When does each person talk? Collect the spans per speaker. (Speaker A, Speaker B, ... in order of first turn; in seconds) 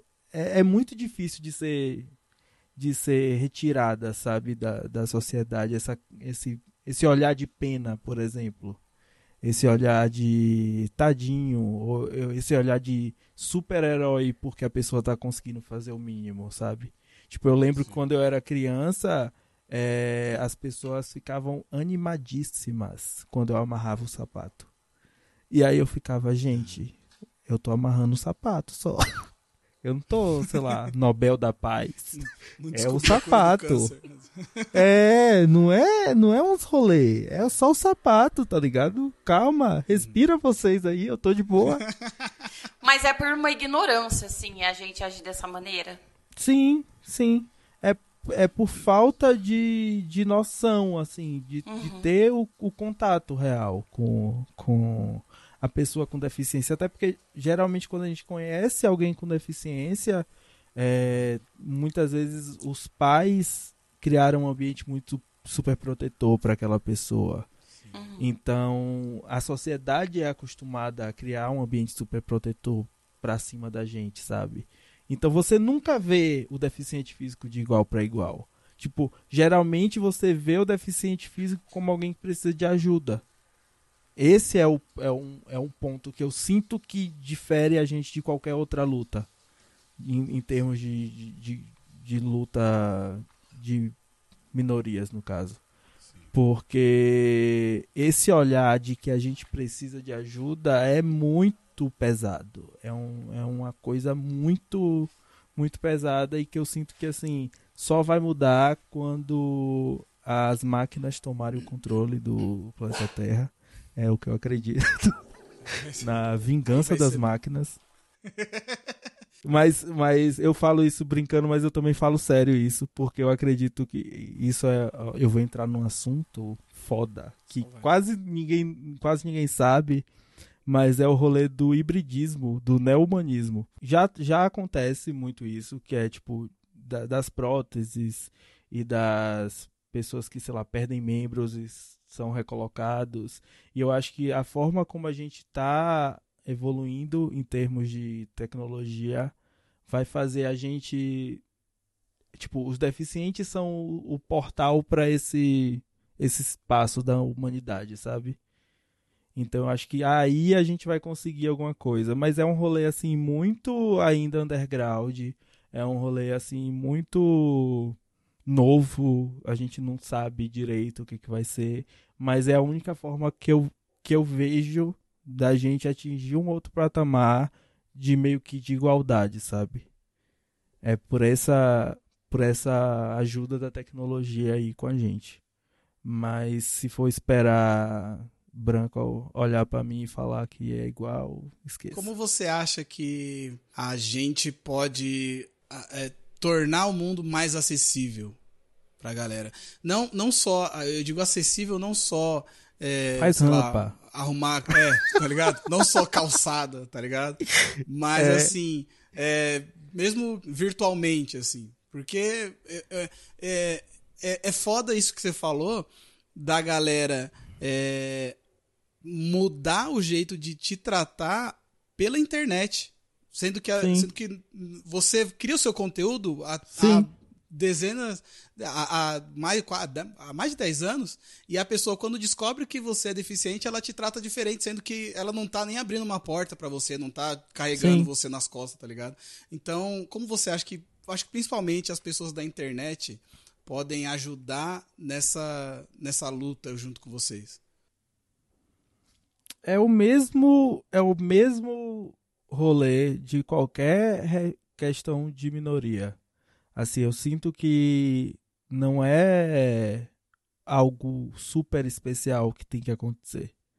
Speaker A: 0.3-2.1, 2.8-8.8, 9.4-24.7, 25.5-27.0, 27.5-29.0, 29.8-32.2, 32.7-33.9, 34.7-41.8, 46.4-67.5, 68.2-83.2, 84.2-89.3, 90.0-94.0, 94.5-95.6, 96.3-115.2, 116.0-117.8, 119.4-130.1, 130.7-149.3, 149.9-151.4, 152.3-158.4, 159.3-179.9, 180.8-185.4, 186.0-192.1, 203.2-204.0, 208.2-208.5, 223.8-224.1, 226.8-227.1, 237.8-238.1, 249.7-256.2, 256.8-260.1, 260.7-263.5
Speaker B: 17.7-18.0, 32.1-34.7, 39.9-40.2, 41.6-41.9, 115.7-116.2, 116.7-117.3, 118.3-118.8, 127.6-127.9, 191.9-198.4, 199.0-218.4, 219.0-247.6
Speaker C: 42.8-46.0, 51.7-52.1, 67.9-68.3